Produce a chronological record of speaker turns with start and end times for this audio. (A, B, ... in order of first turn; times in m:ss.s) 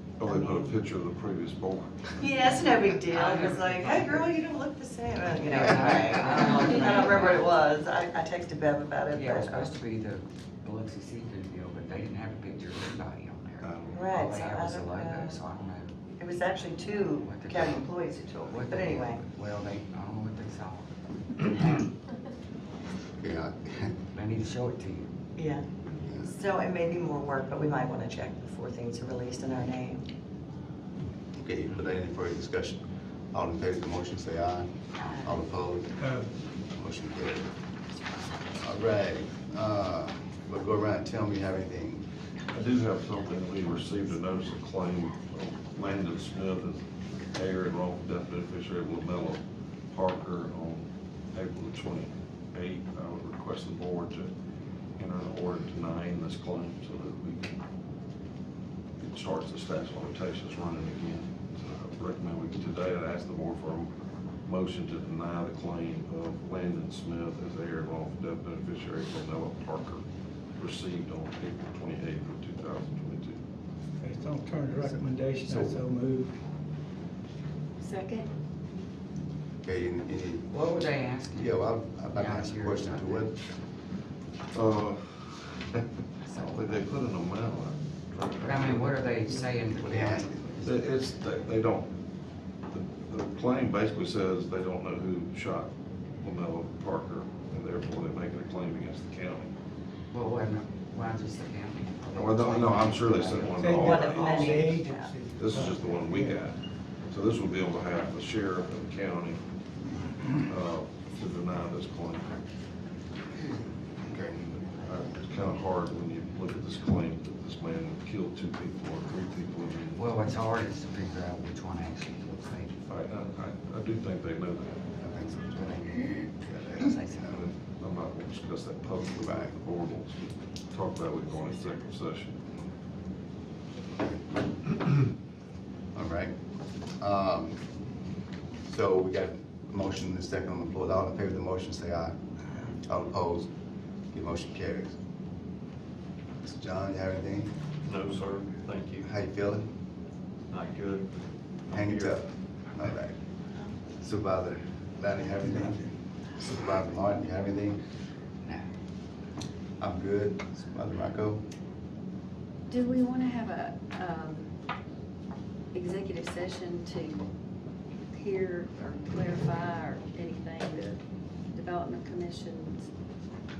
0:00.2-0:02.3 A
0:00.2-0:00.8 B
0:02.2-0:09.7 B
0:03.0-0:04.3 C
0:05.2-0:07.5 C
0:09.1-0:15.9 C
0:13.6-0:14.1 A
0:13.9-0:15.4 B
0:16.2-0:19.2 B
0:17.2-0:20.9 C
0:19.4-0:19.8 D
0:21.4-0:21.8 C
0:23.2-0:24.0 D
0:24.1-0:25.1 C
0:25.4-0:25.7 B
0:26.0-0:26.3 D
0:26.2-0:30.0 B
0:31.4-0:36.0 D
0:36.7-0:37.5 D
0:38.6-0:42.0 D
0:42.5-0:54.3 A
0:55.0-0:57.5 A
0:59.0-1:03.9 A
1:04.4-1:10.0 A
1:10.6-1:13.4 A
1:14.0-1:16.4 E
1:15.5-1:15.8 D
1:17.8-1:18.3 F
1:19.6-1:20.6 D
1:20.5-1:23.3 C
1:21.4-1:23.4 D
1:24.5-1:29.0 A
1:26.2-1:26.9 C
1:28.4-1:30.5 C
1:29.8-1:30.8 D
1:30.6-1:31.9 A
1:32.7-1:39.5 A
1:40.1-1:44.0 C
1:42.2-1:44.6 A
1:43.6-1:46.4 E
1:43.7-1:45.1 B
1:45.4-1:49.4 A
1:50.4-1:52.4 A
1:54.0-1:54.6 D
1:54.5-2:00.0 A
2:00.0-2:02.8 C
2:02.8-2:04.8 A
2:05.0-2:07.4 D
2:05.6-2:07.4 C
2:07.3-2:12.5 A
2:09.2-2:09.6 D
2:14.0-2:14.9 D
2:16.0-2:16.4 D
2:17.0-2:17.6 D
2:18.6-2:22.2 D
2:22.8-2:23.5 D
2:24.1-2:25.0 D
2:26.4-2:27.5 D
2:27.9-2:29.1 G
2:29.0-2:29.7 D
2:30.5-2:31.1 G
2:31.7-2:32.2 G
2:31.7-2:33.2 D
2:34.0-2:37.8 D
2:39.8-2:41.4 D
2:42.7-2:44.5 F
2:45.7-2:47.2 F
2:48.1-2:51.0 F
2:51.5-2:52.9 F